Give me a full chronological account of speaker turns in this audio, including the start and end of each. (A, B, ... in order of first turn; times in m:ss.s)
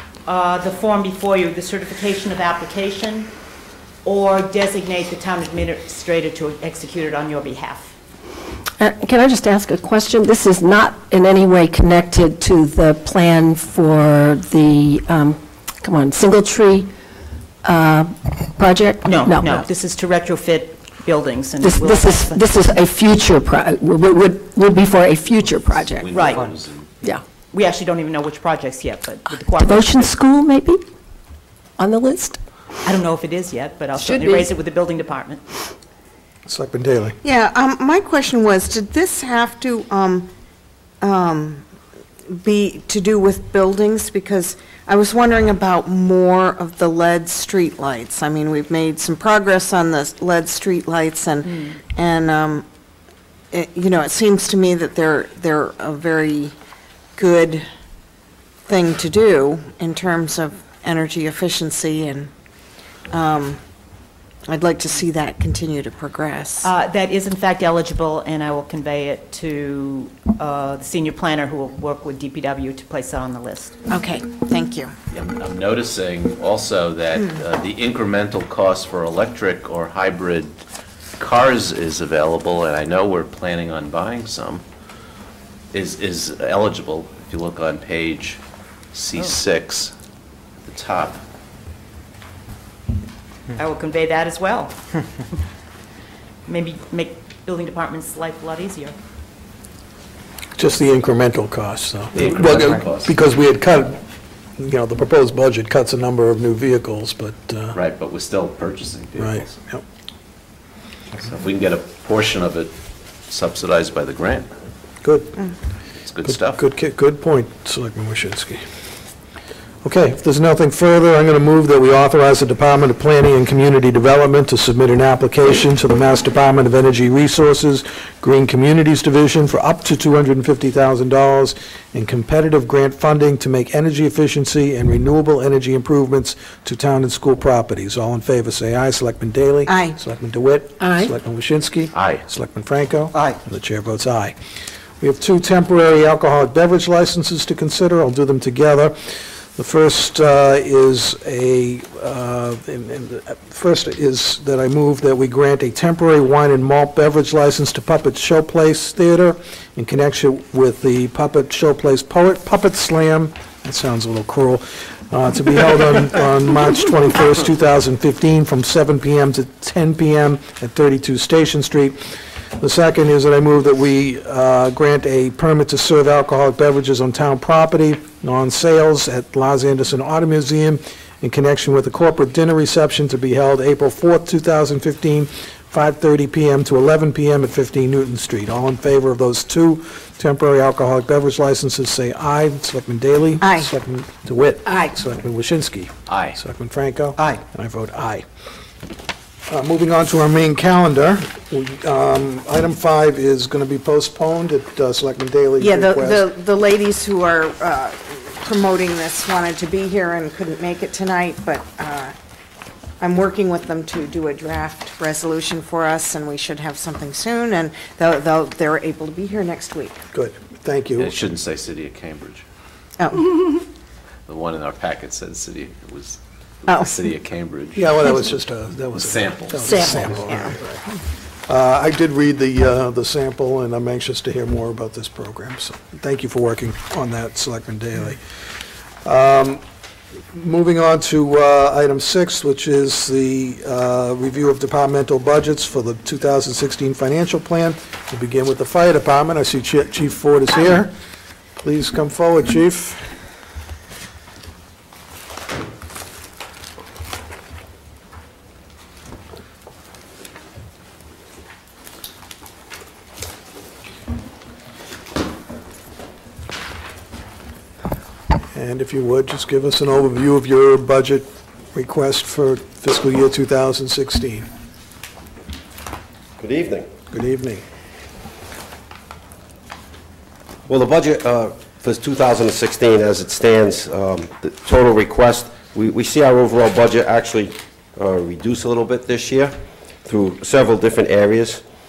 0:00.2-0:03.3 A
0:04.0-0:07.9 A
0:08.8-0:16.9 B
0:17.6-0:19.7 B
0:19.0-0:22.5 A
0:21.6-0:26.2 B
0:26.0-0:26.9 C
0:26.1-0:26.5 A
0:27.5-0:30.1 A
0:29.6-0:30.8 B
0:31.8-0:32.4 B
0:32.8-0:35.4 A
0:34.0-0:34.5 B
0:36.5-0:37.2 D
0:37.2-0:40.3 E
0:41.0-0:41.6 E
0:42.3-0:52.6 E
0:53.5-0:56.5 E
0:57.2-0:57.6 E
0:58.7-1:02.3 E
1:03.1-1:03.6 E
1:04.5-1:06.7 E
1:06.6-1:13.8 A
1:13.9-1:14.9 E
1:15.1-1:20.6 C
1:21.2-1:24.6 C
1:25.7-1:28.4 C
1:28.9-1:29.9 C
1:30.6-1:31.2 C
1:33.6-1:34.8 A
1:36.5-1:39.0 A
1:40.6-1:44.0 D
1:42.2-1:43.2 C
1:44.6-1:47.8 D
1:47.7-1:49.5 C
1:49.2-1:49.8 D
1:51.2-1:52.7 C
1:53.3-1:54.5 C
1:55.0-1:55.4 D
1:56.0-1:56.6 C
1:56.2-1:58.6 D
1:59.8-2:24.4 D
2:19.7-2:20.0 E
2:20.8-2:21.1 B
2:21.9-2:22.2 C
2:25.0-3:18.2 D
3:13.4-3:13.7 E
3:16.1-3:16.4 C
3:19.5-3:26.3 D
3:25.6-3:32.1 E
3:33.0-3:40.0 E
3:40.1-3:41.1 D
3:41.0-3:42.4 C
3:43.0-3:43.5 E
3:44.3-3:47.9 C
3:46.7-3:46.9 E
3:47.8-3:50.9 D
3:48.9-3:50.1 C
3:51.5-3:58.2 D
3:59.0-3:59.6 D
4:00.3-4:10.9 D
4:11.6-4:13.1 D
4:28.5-4:34.5 D
4:36.4-4:36.9 F
4:37.1-4:37.6 D
4:40.7-4:51.6 F